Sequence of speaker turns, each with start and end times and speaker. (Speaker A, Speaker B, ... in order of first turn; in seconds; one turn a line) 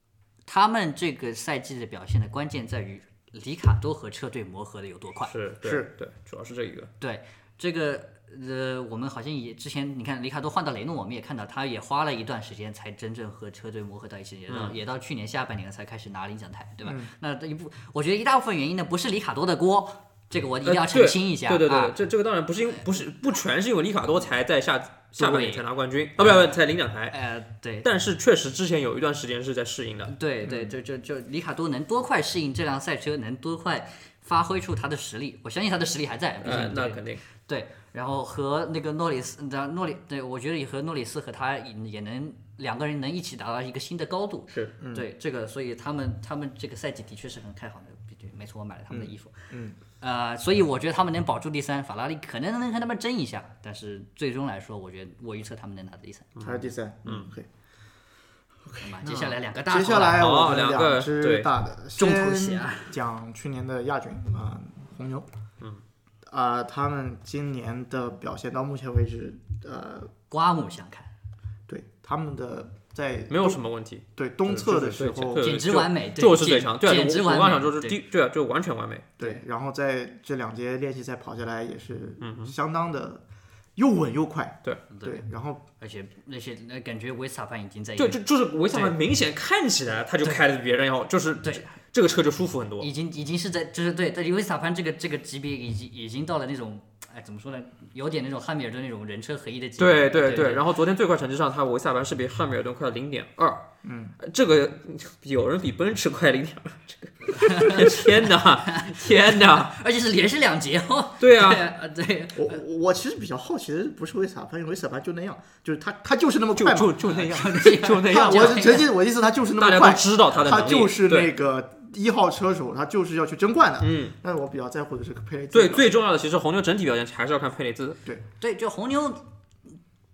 Speaker A: 0.5-5.3
Speaker B: 5.3-6.9
Speaker C: 5.6-5.9
Speaker A: 7.0-21.9
Speaker B: 14.5-14.8
Speaker C: 16.9-17.1
Speaker B: 20.6-27.2
Speaker A: 25.2-25.6
Speaker A: 26.2-26.6
Speaker A: 27.1-27.9
Speaker B: 27.8-30.1
Speaker A: 30.1-56.4
Speaker C: 30.4-30.7
Speaker B: 36.4-37.2
Speaker C: 44.8-45.1
Speaker C: 48.9-49.8
Speaker B: 56.4-57.3
Speaker C: 56.4-57.5
Speaker C: 58.6-65.3
Speaker A: 58.8-60.4
Speaker B: 60.1-61.5
Speaker A: 62.0-62.9
Speaker C: 66.3-70.1
Speaker A: 70.3-71.1
Speaker C: 71.7-73.6
Speaker B: 73.3-79.1
Speaker C: 74.2-75.5
Speaker A: 75.4-78.0
Speaker C: 79.2-83.2
Speaker B: 82.2-82.5
Speaker C: 83.8-85.6
Speaker A: 84.9-85.2
Speaker A: 85.8-88.2
Speaker B: 88.0-92.9
Speaker A: 88.7-89.0
Speaker A: 91.4-91.7
Speaker A: 92.8-100.6
Speaker B: 99.8-103.7
Speaker C: 103.8-104.2
Speaker B: 104.2-109.8
Speaker A: 107.3-112.6
Speaker B: 111.2-111.7
Speaker C: 112.3-117.0
Speaker B: 116.6-118.8
Speaker A: 117.0-118.9
Speaker C: 118.0-125.9
Speaker B: 119.6-121.3
Speaker B: 123.8-124.1
Speaker B: 125.5-128.0
Speaker A: 128.4-129.3